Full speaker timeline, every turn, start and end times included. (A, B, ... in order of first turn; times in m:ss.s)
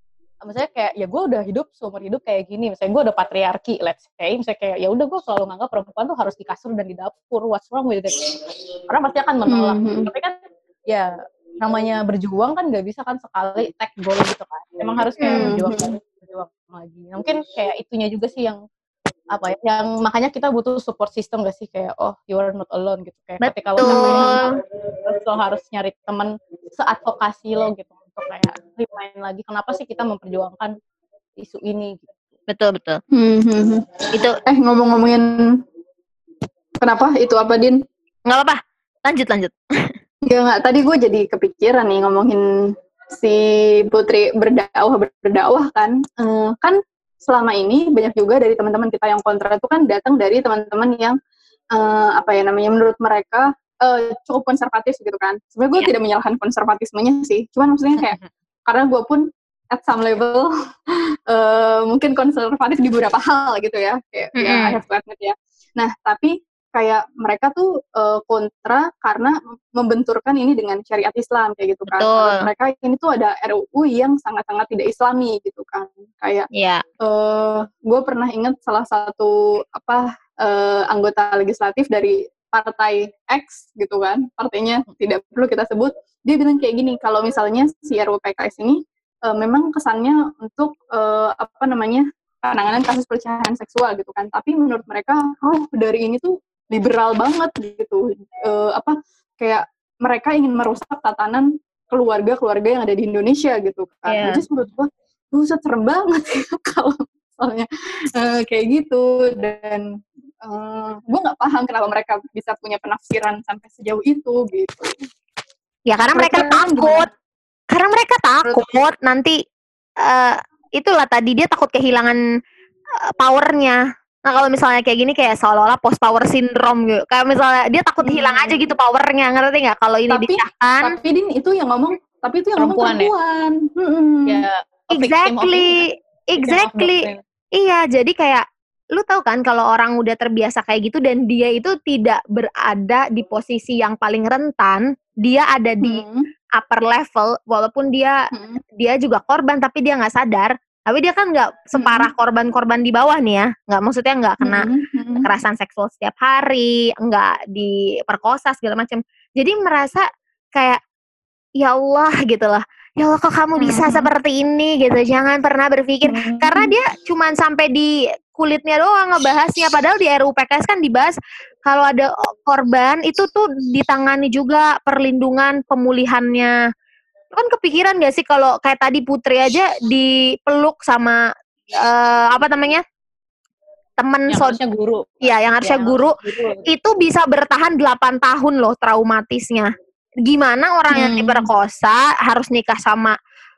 0:00.4-0:08.2 A
0:08.9-0:10.4 A
0:09.5-0:10.1 B
0:10.9-0:18.6 A
0:15.2-0:15.9 B
0:19.3-0:24.5 A
0:23.4-0:24.5 C
0:23.8-0:24.3 B
0:25.1-0:30.7 A
0:31.4-0:32.2 A
0:32.5-0:33.0 C
0:33.1-0:33.8 B
0:34.5-0:35.4 B
0:36.8-0:37.8 B
0:38.3-0:39.6 C
0:40.3-0:42.4 B
0:43.1-0:51.2 B
0:51.8-1:00.5 B
1:01.3-1:16.5 B
1:04.4-1:04.8 C
1:11.9-1:12.5 C
1:16.5-1:16.8 C
1:17.0-1:49.9 B
1:44.1-1:44.4 C
1:50.4-1:54.8 B
1:55.9-1:57.1 C
1:56.2-1:57.1 B
1:57.7-1:59.3 C
2:00.0-2:02.2 C
2:03.0-2:11.0 C
2:08.0-2:08.6 B
2:10.1-2:14.4 B
2:12.6-2:13.1 A
2:14.3-2:15.8 A
2:14.9-2:26.0 C
2:16.4-2:17.2 A
2:25.8-2:26.3 B
2:26.6-2:34.7 C
2:28.3-2:28.6 B
2:31.8-2:32.1 B
2:34.4-2:35.3 B
2:35.2-2:40.8 C
2:41.6-2:56.5 C
2:43.6-2:44.1 B
2:46.0-2:46.7 B
2:57.3-3:01.2 C
3:01.8-3:02.8 C
3:04.0-3:04.6 C
3:04.3-3:06.7 A
3:05.2-3:06.2 C
3:06.7-3:09.7 C
3:10.2-3:13.2 C
3:10.9-3:11.5 B